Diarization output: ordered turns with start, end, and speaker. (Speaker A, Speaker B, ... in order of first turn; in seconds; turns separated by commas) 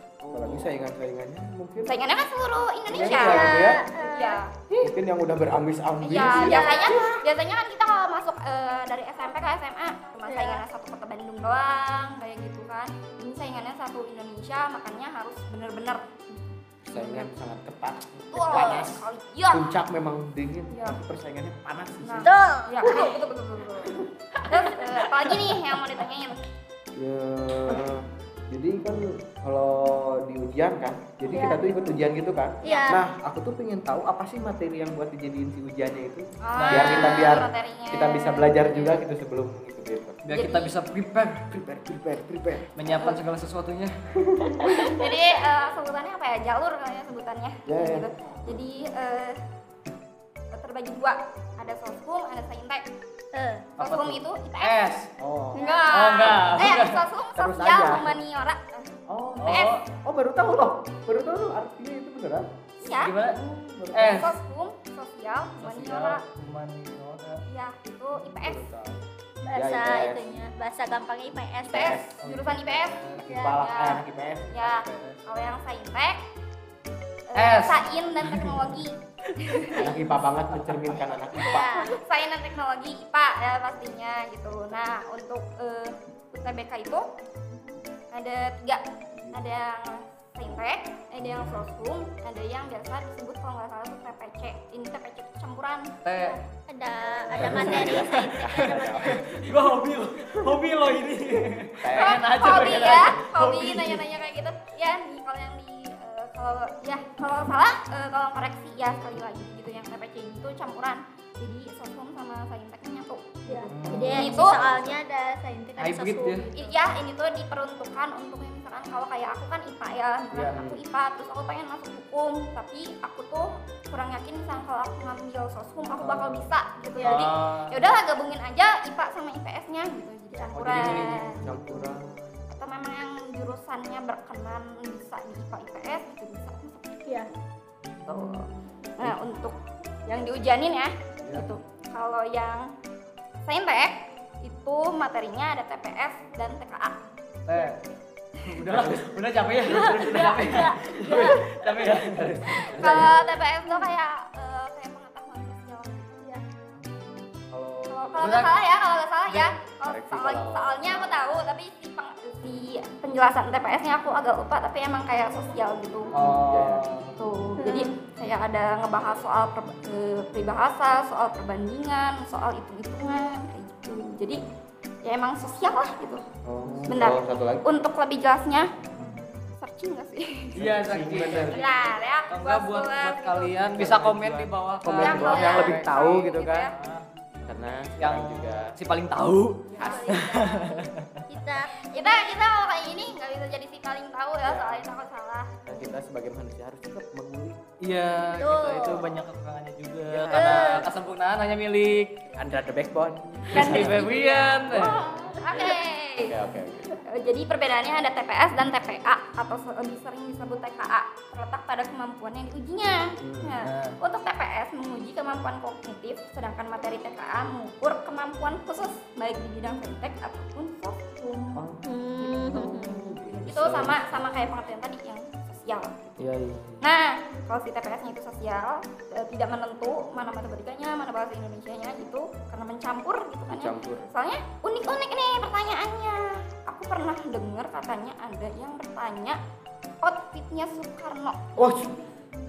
Speaker A: 0.3-2.0, Speaker B: 1.9-4.5, Speaker A: 2.9-3.9, Speaker C: 3.0-4.4, Speaker A: 4.8-7.2, Speaker B: 6.0-17.3, Speaker C: 6.2-7.2, Speaker C: 10.2-10.6, Speaker A: 16.8-22.3, Speaker B: 18.3-19.7, Speaker B: 20.7-21.0, Speaker B: 22.0-26.4, Speaker C: 22.2-23.2, Speaker D: 24.8-25.6, Speaker A: 26.9-40.2, Speaker C: 31.3-31.8, Speaker C: 32.6-33.0, Speaker B: 32.6-32.9, Speaker B: 36.4-39.0, Speaker D: 36.6-37.4, Speaker D: 40.2-41.4, Speaker B: 40.3-40.8, Speaker A: 41.5-42.7, Speaker D: 42.8-43.9, Speaker A: 44.2-44.9, Speaker B: 44.6-49.4, Speaker C: 44.6-45.2, Speaker A: 47.6-48.6, Speaker B: 50.5-52.9, Speaker C: 53.3-53.7, Speaker B: 53.8-54.9, Speaker D: 53.8-55.1, Speaker A: 55.2-55.6, Speaker C: 55.5-55.9, Speaker B: 55.5-59.8, Speaker D: 55.9-57.0, Speaker A: 57.4-58.2, Speaker A: 59.1-62.5, Speaker D: 59.4-59.8, Speaker B: 62.8-63.2, Speaker D: 62.9-63.4, Speaker A: 63.2-64.3, Speaker D: 63.9-64.3, Speaker B: 64.0-66.2, Speaker D: 65.6-67.4, Speaker B: 67.5-68.7, Speaker A: 68.1-70.3, Speaker C: 69.4-72.0, Speaker B: 71.7-76.2, Speaker A: 71.7-72.1, Speaker D: 72.2-73.2, Speaker A: 73.1-74.6, Speaker C: 73.2-73.6, Speaker D: 74.5-75.2, Speaker B: 77.3-79.9, Speaker D: 77.4-78.7, Speaker A: 79.8-81.9, Speaker D: 80.5-81.1, Speaker C: 81.3-82.0, Speaker B: 81.4-87.1, Speaker B: 88.1-96.0, Speaker A: 91.2-91.6, Speaker D: 96.0-96.4, Speaker C: 96.2-99.4, Speaker D: 97.3-104.0, Speaker A: 97.3-99.4, Speaker A: 101.8-103.2, Speaker B: 101.9-114.7, Speaker C: 113.5-116.7, Speaker D: 113.7-114.3, Speaker A: 113.8-115.0, Speaker D: 115.8-116.5, Speaker B: 116.5-131.5, Speaker D: 120.3-120.6, Speaker A: 120.5-120.8, Speaker D: 126.0-127.8, Speaker C: 127.0-127.3, Speaker A: 130.5-132.5, Speaker D: 130.6-131.6, Speaker B: 132.5-137.0, Speaker A: 138.0-138.4, Speaker B: 138.1-142.7, Speaker B: 143.4-147.0, Speaker D: 147.5-147.8, Speaker D: 148.4-153.0, Speaker A: 148.6-153.2, Speaker C: 149.7-151.4, Speaker B: 152.5-156.2, Speaker A: 156.8-158.4, Speaker B: 157.9-166.2, Speaker D: 158.2-158.5, Speaker A: 159.8-161.2, Speaker D: 166.1-167.1, Speaker A: 166.1-166.9, Speaker B: 167.1-174.4, Speaker C: 167.6-167.9, Speaker B: 175.0-176.2, Speaker A: 176.4-177.7, Speaker B: 176.9-178.7, Speaker B: 179.6-180.6, Speaker A: 180.5-181.6, Speaker D: 180.6-181.7, Speaker B: 181.2-183.8, Speaker D: 182.3-187.0, Speaker A: 183.7-186.7, Speaker B: 185.0-186.7, Speaker A: 187.4-188.8, Speaker D: 188.0-191.2, Speaker B: 189.7-190.7, Speaker C: 189.8-190.6, Speaker C: 191.3-191.8, Speaker B: 191.7-195.7, Speaker A: 194.4-194.9, Speaker A: 195.6-197.6, Speaker D: 197.8-202.3, Speaker C: 198.4-199.1, Speaker A: 200.1-200.9, Speaker C: 200.3-200.9, Speaker A: 202.3-204.1, Speaker D: 203.5-205.0, Speaker B: 203.5-206.4, Speaker A: 204.7-205.3, Speaker C: 204.9-205.8, Speaker A: 206.2-207.0, Speaker B: 207.0-221.7, Speaker A: 213.2-213.6, Speaker D: 213.6-214.0, Speaker A: 221.5-221.9, Speaker C: 221.8-223.2, Speaker B: 222.2-239.4, Speaker A: 222.4-224.2, Speaker D: 226.2-226.8, Speaker A: 233.5-234.1, Speaker B: 240.0-241.6, Speaker A: 241.6-242.0